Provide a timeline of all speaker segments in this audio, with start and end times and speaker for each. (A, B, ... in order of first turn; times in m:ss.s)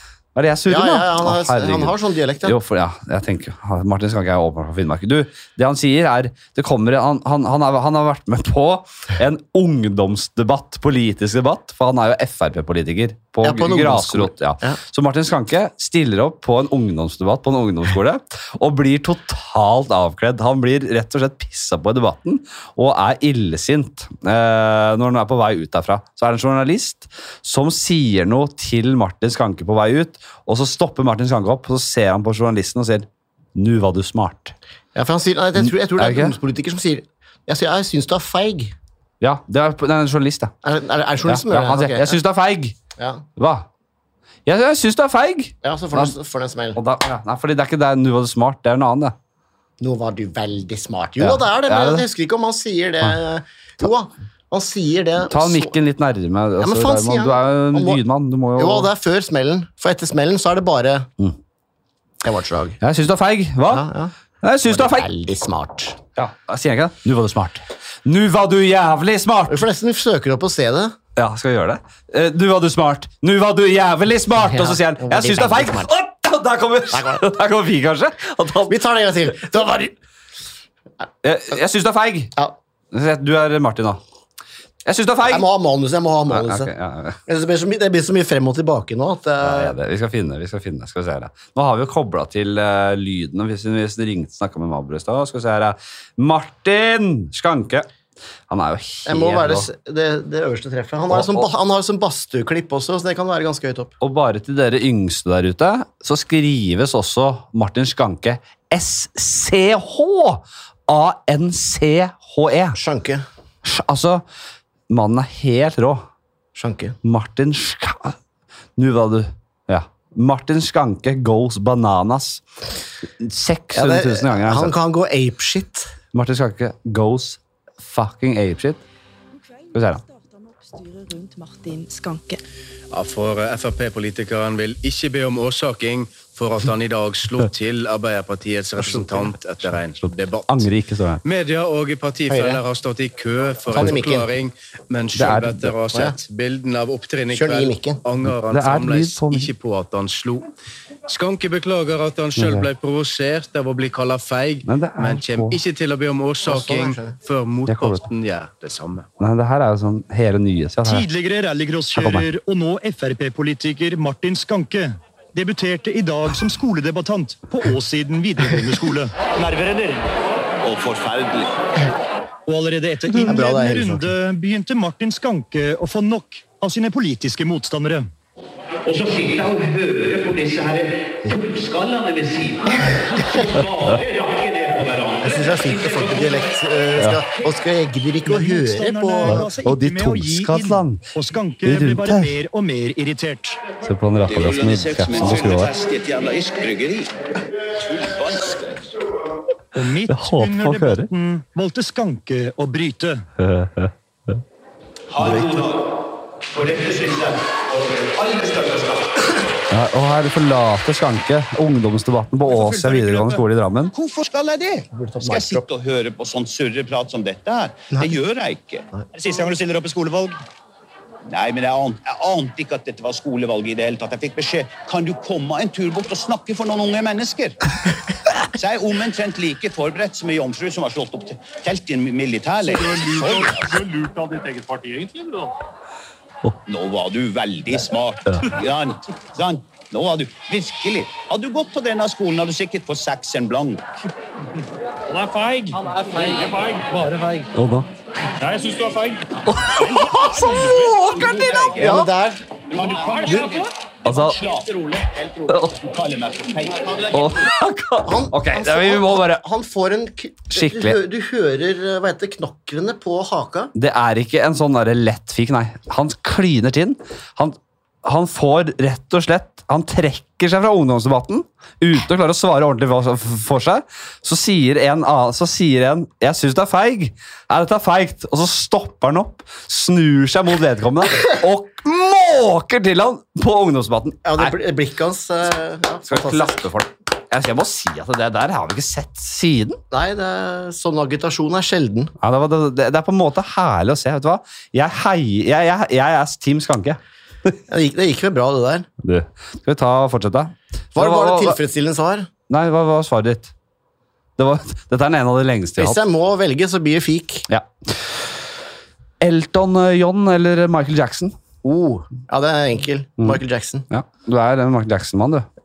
0:00.3-0:34.5 A
0:00.7-0:02.6 B
0:13.4-0:14.8 B
0:34.9-0:38.7 B
0:35.6-0:36.4 A
0:39.2-0:40.5 A
0:40.6-0:42.2 B
0:41.2-0:42.7 A
0:43.0-0:43.2 B
0:43.4-0:43.6 A
0:44.4-0:46.1 A
0:45.6-0:46.8 B
0:46.7-0:49.1 A
0:49.8-0:55.8 B
0:51.2-0:52.0 A
0:55.2-0:58.9 A
0:56.6-0:58.0 B
0:58.6-1:01.1 B
1:02.2-1:02.8 B
1:02.8-1:03.8 A
1:03.7-1:04.1 B
1:04.4-1:05.1 A
1:04.6-1:06.0 B
1:06.2-1:09.6 A
1:09.5-1:11.0 B
1:11.2-1:18.8 A
1:14.4-1:15.9 B
1:16.9-1:17.3 B
1:18.7-1:20.0 B
1:21.2-1:22.3 A
1:22.9-1:24.0 A
1:24.8-1:25.4 A
1:25.3-1:26.7 B
1:26.3-1:27.2 A
1:27.3-1:29.7 B
1:29.4-1:37.9 A
1:38.5-1:39.7 A
1:39.0-1:43.9 B
1:41.1-1:41.5 A
1:44.0-1:52.8 A
1:52.7-1:53.2 B
1:53.6-1:54.2 A
1:54.9-1:56.0 A
1:56.5-1:57.0 B
1:57.0-1:58.2 A
1:58.8-2:02.4 A
2:03.2-2:04.7 A
2:03.7-2:05.9 B
2:06.1-2:08.8 A
2:09.4-2:12.4 C
2:09.7-2:10.0 A
2:12.9-2:20.7 D
2:18.8-2:19.3 B
2:20.0-2:21.2 A
2:21.2-2:30.5 D
2:22.3-2:22.6 B
2:23.7-2:24.0 A
2:23.7-2:24.3 B
2:25.1-2:25.7 A
2:25.9-2:26.2 B
2:27.3-2:28.0 B
2:28.3-2:29.5 A
2:31.1-2:39.1 D
2:32.4-2:32.7 A
2:34.6-2:35.6 A
2:36.4-2:37.2 B
2:37.6-2:38.0 A
2:39.2-2:41.1 A
2:40.8-2:50.1 E
2:41.9-2:42.2 A
2:50.6-2:51.6 F
2:52.5-2:58.1 E
2:53.2-2:54.1 B
2:58.8-3:06.4 F
3:05.2-3:09.4 B
3:08.2-3:13.6 E
3:09.3-3:11.0 A
3:11.6-3:12.3 A
3:13.8-3:15.7 A
3:14.3-3:17.1 F
3:17.8-3:18.8 F
3:19.7-3:23.2 E
3:20.1-3:21.1 A
3:23.4-3:24.4 A
3:25.1-3:25.8 F
3:25.2-3:25.5 A
3:26.5-3:29.1 F
3:29.7-3:33.9 A
3:32.5-3:33.3 E
3:33.9-3:40.3 F
3:34.9-3:35.6 B
3:41.3-3:47.6 F
3:48.5-3:54.0 F
3:56.7-4:03.8 F
4:05.4-4:06.4 F
4:07.5-4:07.9 A
4:09.4-4:12.0 A
4:09.8-4:12.0 F
4:11.8-4:12.4 B
4:12.7-4:17.1 F
4:14.0-4:14.4 A
4:15.5-4:15.8 A
4:17.1-4:19.4 A
4:18.0-4:23.7 B
4:20.5-4:21.0 A
4:23.7-4:44.6 A
4:44.2-4:46.7 B
4:46.1-4:49.8 A
4:49.9-4:52.1 B
4:52.2-4:57.6 A
4:57.7-4:58.9 B
4:59.0-5:01.6 A
5:00.9-5:02.3 B
5:02.5-5:03.5 A
5:04.4-5:06.0 A
5:05.8-5:07.4 B
5:07.5-5:08.3 A
5:09.2-5:11.3 A
5:11.6-5:13.8 B
5:13.2-5:15.4 A